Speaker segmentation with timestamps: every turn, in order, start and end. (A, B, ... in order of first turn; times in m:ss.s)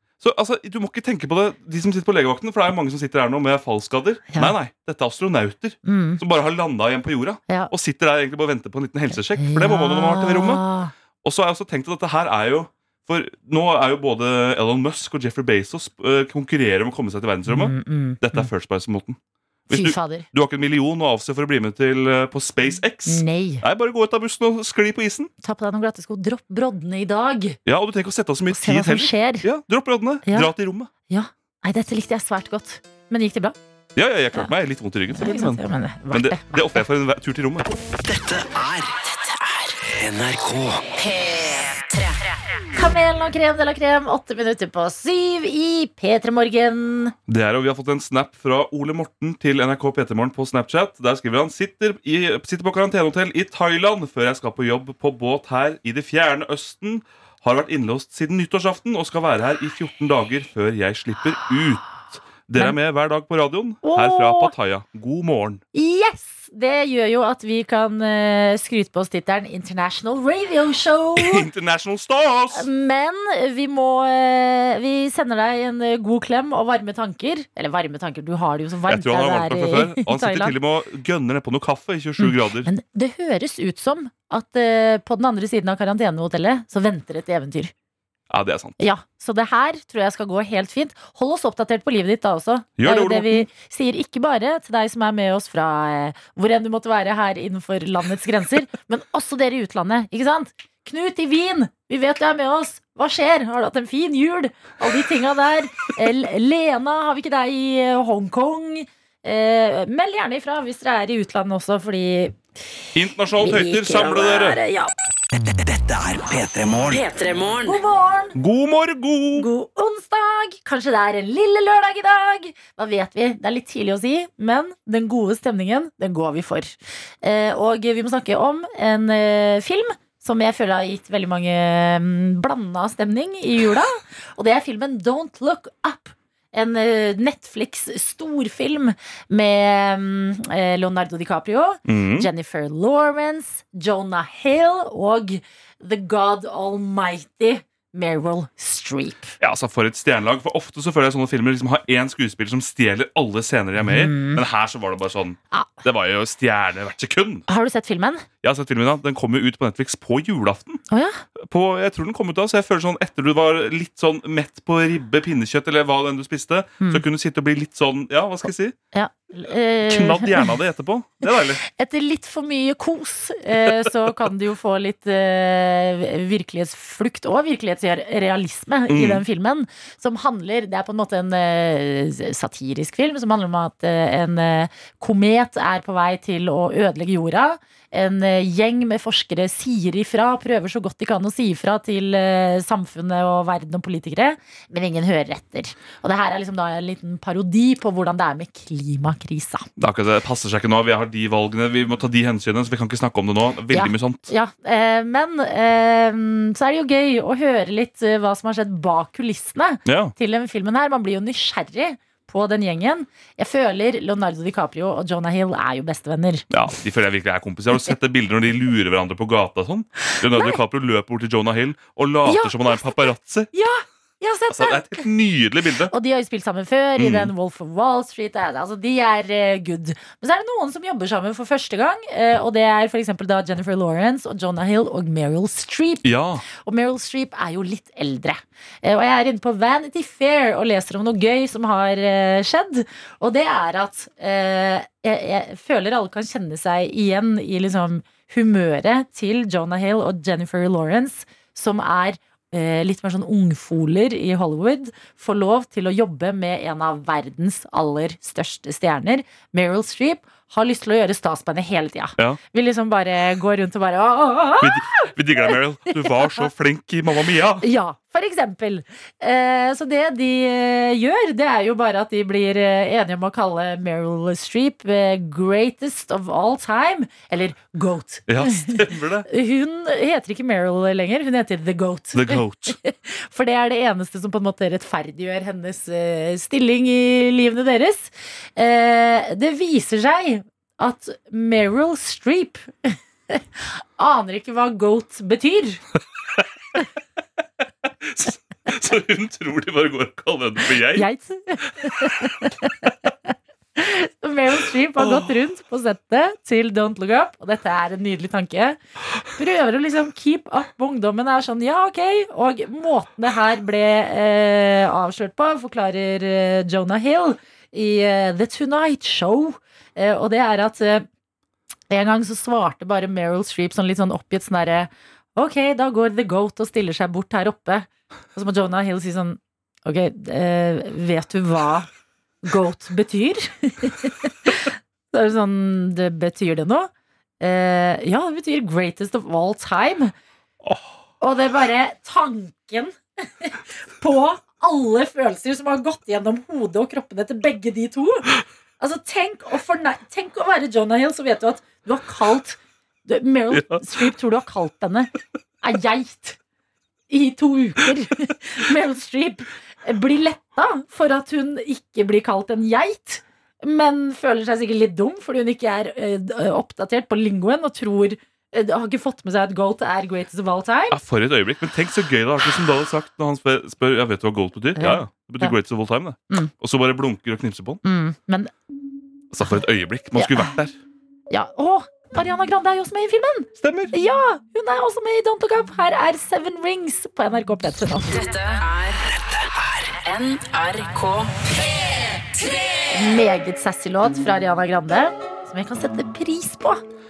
0:00.2-0:10.6 A
0:05.8-0:06.2 B
0:09.4-0:10.9 B
0:11.2-0:19.2 A
0:17.5-0:18.5 B
0:19.7-0:25.3 A
0:19.7-0:20.3 B
0:23.1-0:23.6 B
0:25.4-0:27.6 B
0:27.7-0:30.9 A
0:28.5-0:29.5 B
0:30.2-0:30.5 B
0:31.1-0:33.6 B
0:34.0-0:37.7 A
0:35.1-0:36.8 B
0:38.0-0:39.0 C
0:39.2-0:39.7 D
0:39.9-0:40.9 C
0:41.0-0:42.4 D
0:42.7-0:47.1 B
0:47.3-1:05.6 A
1:03.8-1:04.5 B
1:05.7-1:11.5 B
1:11.2-1:12.7 A
1:12.5-1:20.6 B
1:18.9-1:22.7 A
1:22.2-1:27.7 B
1:28.3-1:28.8 A
1:28.8-1:52.4 B
1:32.8-1:33.5 A
1:53.0-1:54.6 A
1:53.4-1:54.9 B
1:55.4-1:57.1 C
1:56.9-1:57.8 D
1:57.6-1:58.4 B
1:58.4-1:59.5 A
1:59.4-2:29.4 B
2:21.9-2:22.3 A
2:29.4-2:37.4 A
2:33.8-2:34.4 B
2:35.5-2:35.8 B
2:37.5-2:38.3 B
2:38.4-2:40.8 A
2:40.9-2:41.2 B
2:41.4-2:48.8 A
2:48.9-2:50.5 B
2:49.9-2:51.6 A
2:51.3-3:19.7 B
2:58.9-2:59.2 A
3:19.8-3:24.3 A
3:23.7-3:36.5 B
3:29.9-3:30.1 A
3:36.5-3:43.5 A
3:40.3-3:40.6 B
3:42.3-3:45.1 B
3:44.5-3:45.9 A
3:45.9-4:26.1 B
3:47.0-3:47.3 A
3:56.0-3:56.4 A
4:24.6-4:27.6 A
4:27.6-4:55.8 B
4:38.3-4:39.3 A
4:42.1-4:42.8 A
4:58.0-5:01.1 A
5:00.9-5:08.8 B
5:05.0-5:05.3 A
5:09.3-5:21.1 B
5:21.9-5:31.9 B
5:32.4-5:40.1 B
5:40.6-5:40.9 A
5:41.2-5:56.4 B
5:53.5-5:54.1 A
5:57.1-6:11.0 B
6:10.9-6:17.8 A
6:14.8-6:15.6 B
6:17.8-6:18.5 B
6:19.3-6:20.8 A
6:20.2-6:20.5 B
6:21.3-6:28.3 B
6:23.6-6:23.9 A
6:28.1-6:29.0 D
6:30.0-6:31.4 D
6:32.9-6:36.8 B